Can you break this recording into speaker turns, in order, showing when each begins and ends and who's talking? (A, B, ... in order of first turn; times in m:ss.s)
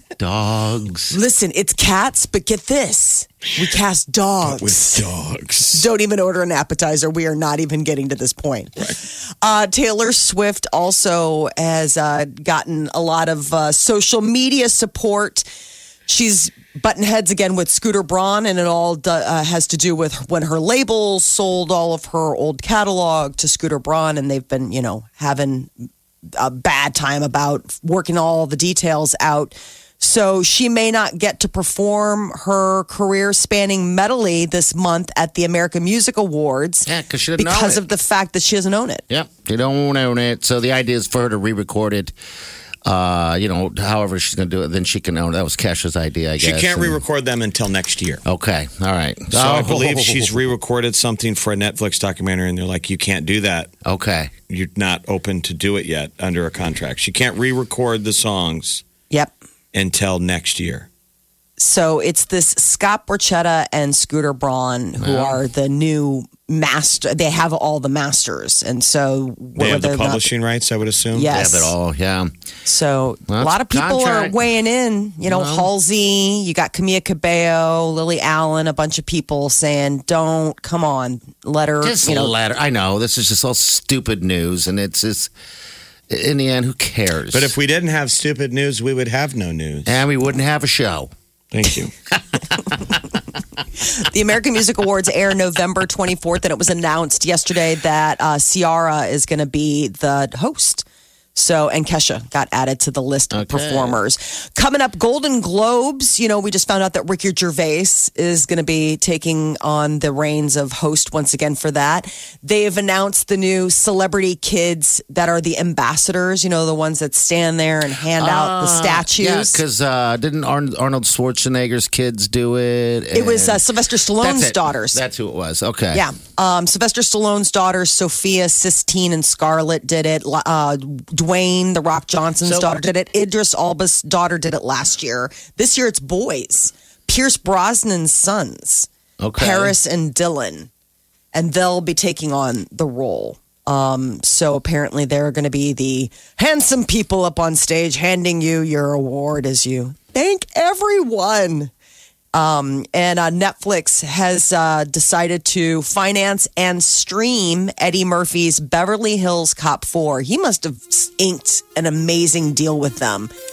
0:00.2-0:01.2 A
0:01.1-0:05.1 B
0:04.4-0:05.8 C
0:05.7-0:15.4 B
0:16.1-0:25.9 B
0:26.4-0:39.0 B
0:36.8-0:37.8 A
0:39.1-0:42.2 A
0:42.8-0:47.0 A
0:46.4-0:48.2 C
0:48.2-0:50.4 A
0:49.3-0:53.7 C
0:53.8-0:54.3 A
0:54.5-0:58.8 C
0:59.7-1:00.9 C
1:01.6-1:10.3 B
1:05.0-1:05.4 A
1:09.6-1:11.3 C
1:11.1-1:11.7 B
1:11.3-1:12.3 A
1:12.6-1:22.3 B
1:13.3-1:14.4 A
1:15.2-1:15.7 A
1:21.8-1:25.3 A
1:26.1-1:27.5 A
1:27.3-1:30.0 C
1:29.8-1:31.1 A
1:31.5-1:31.9 C
1:33.8-1:59.6 B
1:43.3-1:44.0 A
1:58.2-2:03.6 A
2:03.1-2:05.0 B
2:04.2-2:06.0 A
2:05.9-2:20.7 B
2:12.4-2:12.9 A
2:19.2-2:19.7 A
2:21.3-2:31.7 B
2:32.3-2:43.3 B